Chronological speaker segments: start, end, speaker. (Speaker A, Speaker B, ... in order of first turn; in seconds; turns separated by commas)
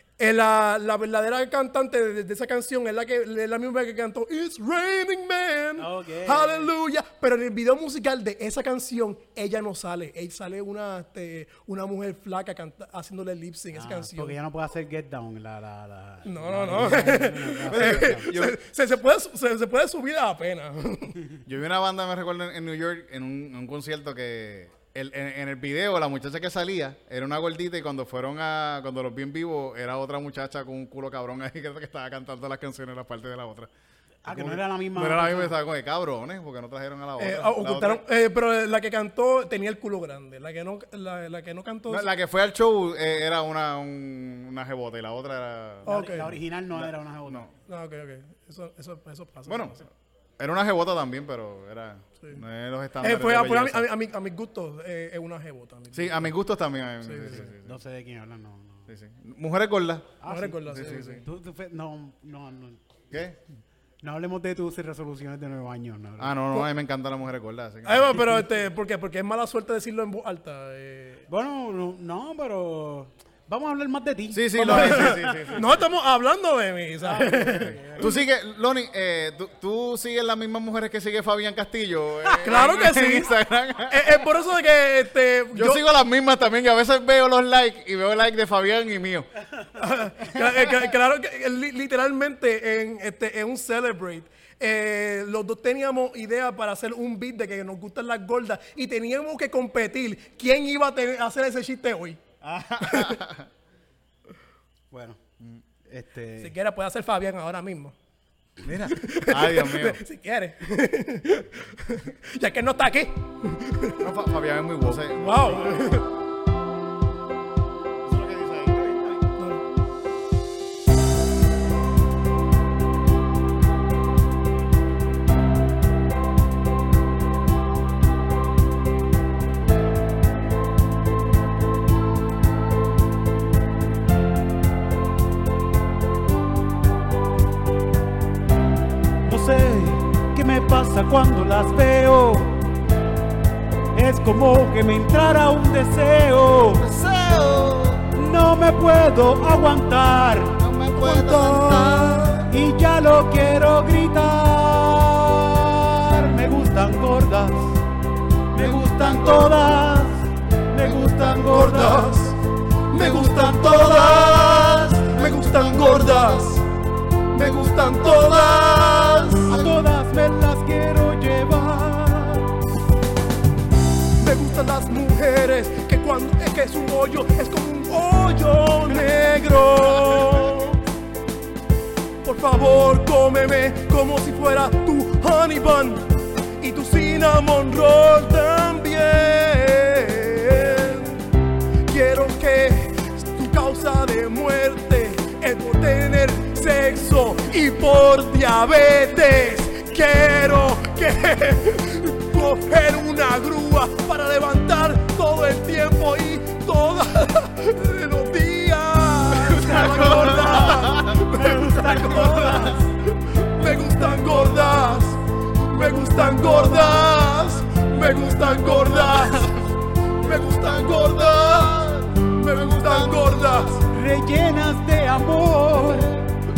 Speaker A: 0.2-14.4, Speaker B: 5.8-6.7, Speaker B: 13.7-18.3, Speaker A: 16.2-21.2, Speaker C: 17.7-18.6, Speaker C: 21.4-33.7, Speaker B: 34.2-35.5, Speaker C: 34.3-38.0, Speaker A: 37.2-42.1, Speaker C: 41.9-45.9, Speaker A: 45.9-46.4, Speaker B: 45.9-47.5, Speaker A: 47.7-49.8, Speaker C: 49.5-49.8, Speaker C: 50.4-53.9, Speaker A: 53.0-56.3, Speaker C: 55.9-57.8, Speaker A: 57.0-57.5, Speaker B: 57.6-58.9, Speaker C: 58.9-61.2, Speaker B: 60.2-62.8, Speaker A: 60.3-61.2, Speaker C: 63.1-63.4, Speaker B: 64.0-66.4, Speaker C: 66.2-68.4, Speaker A: 67.8-71.2, Speaker B: 71.3-75.6, Speaker C: 74.3-75.8, Speaker A: 74.6-78.1, Speaker B: 77.0-78.1, Speaker C: 77.6-84.2, Speaker A: 82.4-85.8, Speaker C: 85.5-89.3, Speaker A: 89.8-102.2, Speaker C: 102.4-103.5, Speaker A: 102.8-103.2, Speaker B: 104.9-105.2, Speaker B: 105.8-106.5, Speaker A: 106.4-107.9, Speaker C: 108.6-110.0, Speaker A: 108.9-114.1, Speaker C: 114.0-116.0, Speaker A: 114.9-116.1, Speaker C: 118.0-118.8, Speaker A: 119.4-119.6, Speaker B: 139.2-142.7, Speaker B: 143.9-146.9, Speaker C: 146.6-148.1, Speaker B: 148.1-150.6, Speaker C: 150.6-152.5, Speaker A: 150.9-152.4, Speaker B: 152.5-157.8, Speaker B: 158.5-162.2, Speaker C: 158.6-159.6, Speaker C: 160.8-161.6, Speaker A: 161.3-162.4, Speaker A: 162.9-166.6, Speaker C: 163.7-166.6, Speaker A: 167.3-169.5, Speaker C: 168.5-169.7, Speaker B: 169.4-172.5, Speaker A: 174.2-180.8, Speaker A: 182.2-186.1, Speaker A: 186.6-191.2, Speaker A: 191.9-219.7, Speaker B: 209.5-212.9, Speaker C: 209.8-211.2, Speaker B: 213.6-214.4, Speaker C: 218.7-219.5, Speaker A: 220.2-223.8, Speaker C: 220.2-223.6, Speaker B: 223.9-226.2